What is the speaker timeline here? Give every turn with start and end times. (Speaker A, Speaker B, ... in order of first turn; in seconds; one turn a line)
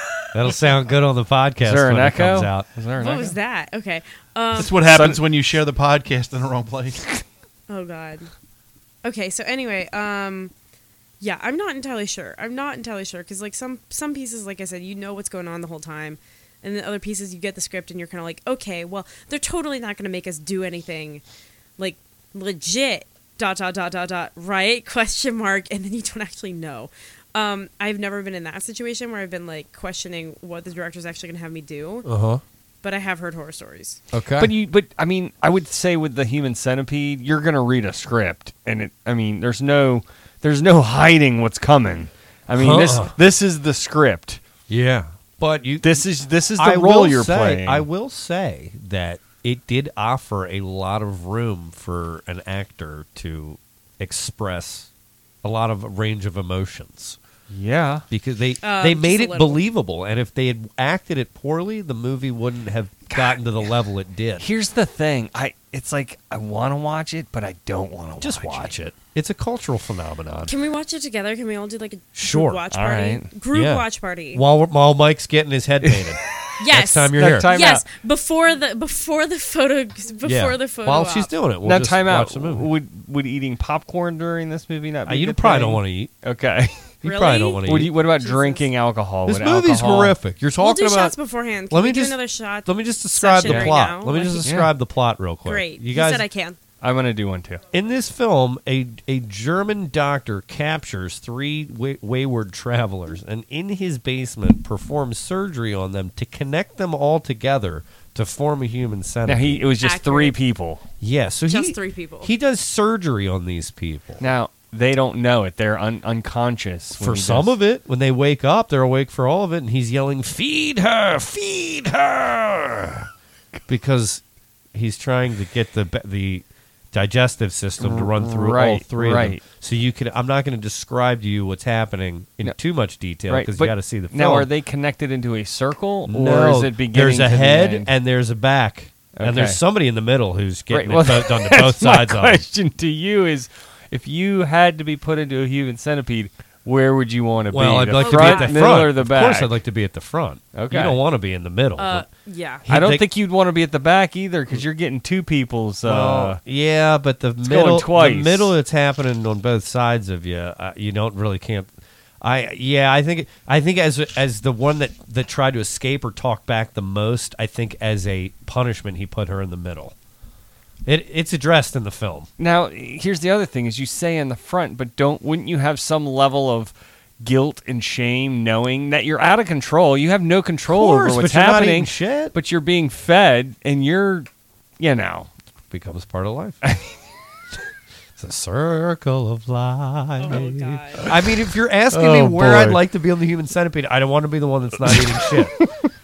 Speaker A: 0.3-2.7
Speaker B: 1.6-3.4
Speaker C: 3.0-4.8
Speaker D: 4.5-7.2
Speaker B: 4.8-5.2
Speaker C: 7.7-8.3
Speaker C: 9.0-10.5
Speaker C: 11.2-21.2
Speaker C: 21.8-32.1
Speaker A: 32.0-32.4
Speaker C: 32.8-34.0
Speaker A: 34.1-34.5
Speaker B: 34.4-44.4
Speaker A: 42.5-43.2
Speaker A: 44.7-46.0
Speaker B: 45.8-47.9
Speaker A: 46.6-54.9
Speaker A: 55.4-57.2
Speaker B: 57.5-58.0
Speaker A: 58.1-64.5
Speaker C: 58.6-59.7
Speaker B: 64.4-68.7
Speaker A: 68.2-70.5
Speaker C: 70.5-74.4
Speaker A: 72.2-72.6
Speaker B: 72.7-73.3
Speaker A: 73.5-77.5
Speaker C: 76.6-81.3
Speaker B: 77.1-77.8
Speaker A: 80.2-82.7
Speaker B: 81.6-86.8
Speaker A: 85.1-86.1
Speaker A: 87.0-87.9
Speaker C: 87.0-88.7
Speaker B: 87.7-90.2
Speaker A: 89.3-91.2
Speaker C: 90.6-94.5
Speaker A: 91.7-96.2
Speaker B: 93.5-93.7
Speaker B: 94.4-94.7
Speaker C: 95.5-96.6
Speaker B: 96.8-97.6
Speaker A: 97.7-109.7
Speaker B: 109.3-110.8
Speaker C: 109.8-110.4
Speaker A: 111.0-114.2
Speaker C: 111.5-112.3
Speaker B: 114.2-117.5
Speaker A: 117.0-123.1
Speaker A: 123.7-124.2
Speaker A: 124.7-134.5
Speaker B: 127.8-129.4
Speaker B: 133.3-137.9
Speaker A: 136.1-142.4
Speaker B: 139.2-139.6
Speaker B: 140.7-149.5
Speaker A: 147.5-152.1
Speaker C: 148.0-148.7
Speaker B: 150.6-151.0
Speaker C: 151.8-152.7
Speaker A: 152.7-153.1
Speaker B: 152.7-156.4
Speaker A: 155.8-169.9
Speaker B: 157.4-158.5
Speaker A: 170.9-172.3
Speaker B: 172.4-184.3
Speaker A: 180.7-182.3
Speaker B: 184.8-185.3
Speaker A: 185.7-186.6
Speaker A: 188.2-195.6
Speaker C: 190.2-191.1
Speaker B: 191.9-192.8
Speaker B: 194.9-195.7